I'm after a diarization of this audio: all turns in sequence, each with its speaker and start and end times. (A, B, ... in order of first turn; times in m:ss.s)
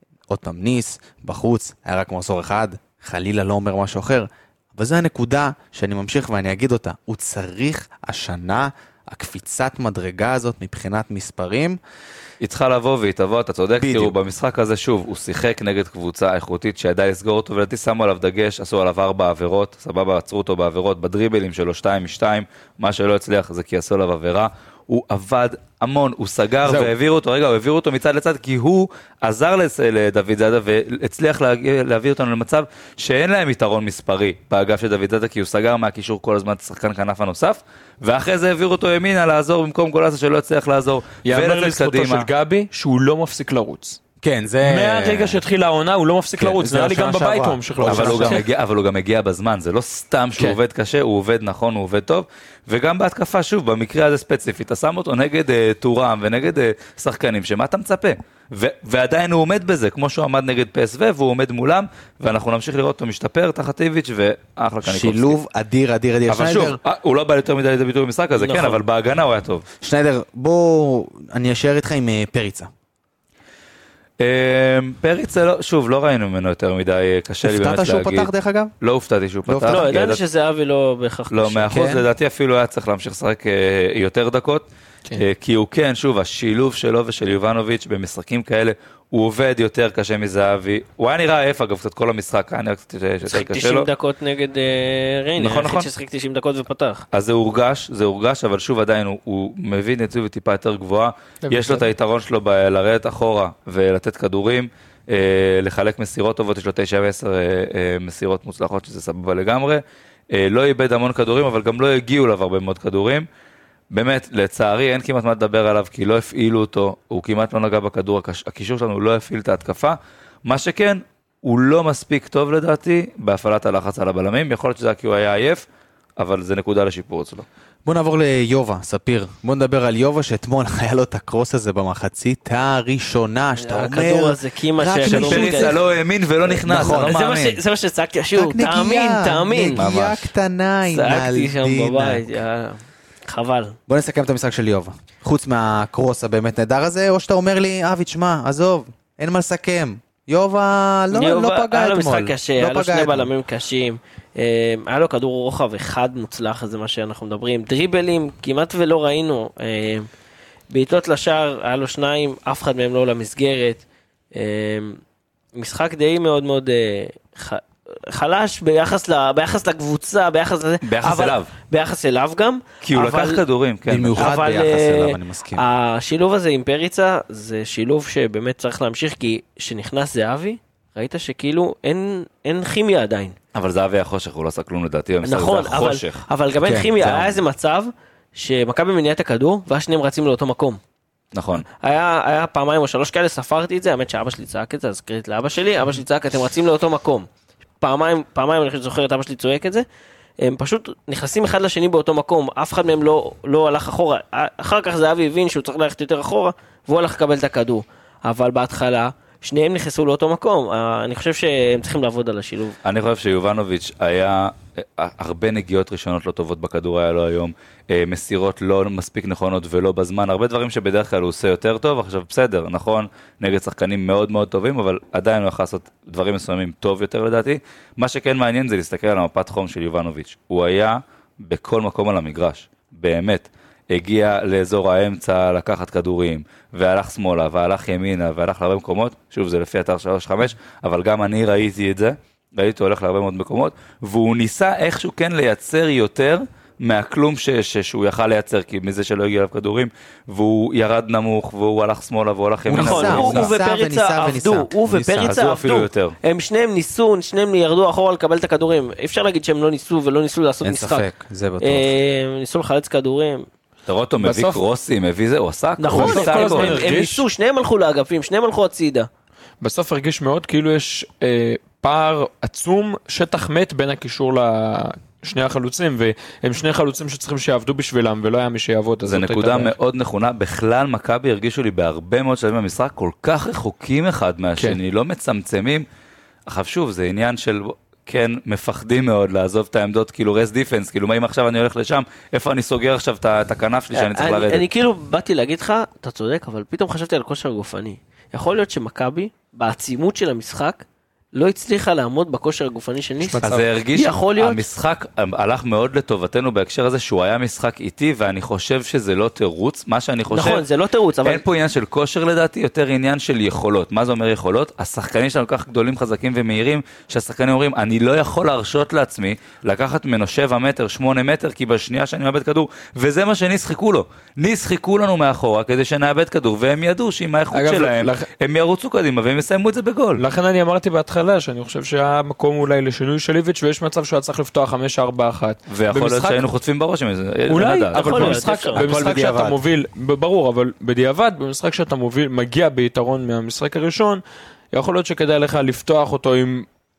0:00.3-0:11.8 A
0:12.4-0:42.3 B
0:13.8-0:14.1 A
0:26.6-0:26.9 C
0:41.2-0:44.0 C
0:44.2-0:45.4 A
0:44.6-0:48.4 C
0:46.4-0:48.4 A
0:47.8-1:05.4 B
1:04.8-1:06.8 A
1:06.3-1:09.6 B
1:08.4-1:08.8 D
1:09.8-1:12.7 A
1:14.2-1:18.3 B
1:17.4-1:18.7 A
1:18.8-1:20.2 B
1:19.5-1:19.9 A
1:19.7-1:21.8 D
1:21.3-1:33.9 B
1:21.7-1:22.0 A
1:33.2-1:37.0 D
1:35.4-1:35.9 B
1:37.1-1:53.2 B
1:41.4-1:41.8 C
1:53.9-2:05.6 B
2:06.2-2:07.4 B
2:07.8-2:15.8 A
2:13.6-2:15.7 D
2:15.0-2:17.6 B
2:16.4-2:17.1 A
2:16.9-2:19.8 D
2:18.3-2:22.2 A
2:19.8-2:20.3 B
2:20.9-2:23.8 D
2:23.9-2:33.3 A
2:31.1-2:40.1 D
2:40.7-2:45.0 D
2:45.6-2:53.4 D
2:50.8-2:51.5 B
2:52.8-2:54.3 B
2:53.9-2:55.6 A
2:54.2-3:03.4 D
3:03.5-3:06.2 B
3:05.2-3:10.8 D
3:06.6-3:06.9 A
3:07.0-3:07.4 B
3:11.3-3:11.6 B
3:11.7-3:17.3 D
3:17.8-3:19.8 D
3:20.4-3:32.8 D
3:32.8-4:13.5 B
4:12.7-4:15.4 A
4:12.8-4:21.0 D
4:15.2-4:16.1 B
4:20.6-4:21.9 A
4:21.6-4:23.4 D
4:23.9-4:26.8 B
4:24.2-4:24.6 C
4:25.8-4:29.1 D
4:25.9-4:27.2 C
4:29.6-4:39.7 C
4:39.1-4:45.8 B
4:46.5-4:54.6 B
4:53.9-5:03.4 D
5:03.2-5:03.7 C
5:03.4-5:10.6 B
5:03.9-5:04.6 D
5:10.3-5:11.4 D
5:11.2-5:30.2 B
5:27.5-5:28.3 C
5:30.2-5:36.4 C
5:35.7-5:38.5 B
5:37.5-5:46.7 C
5:37.9-5:38.9 D
5:38.7-5:39.6 A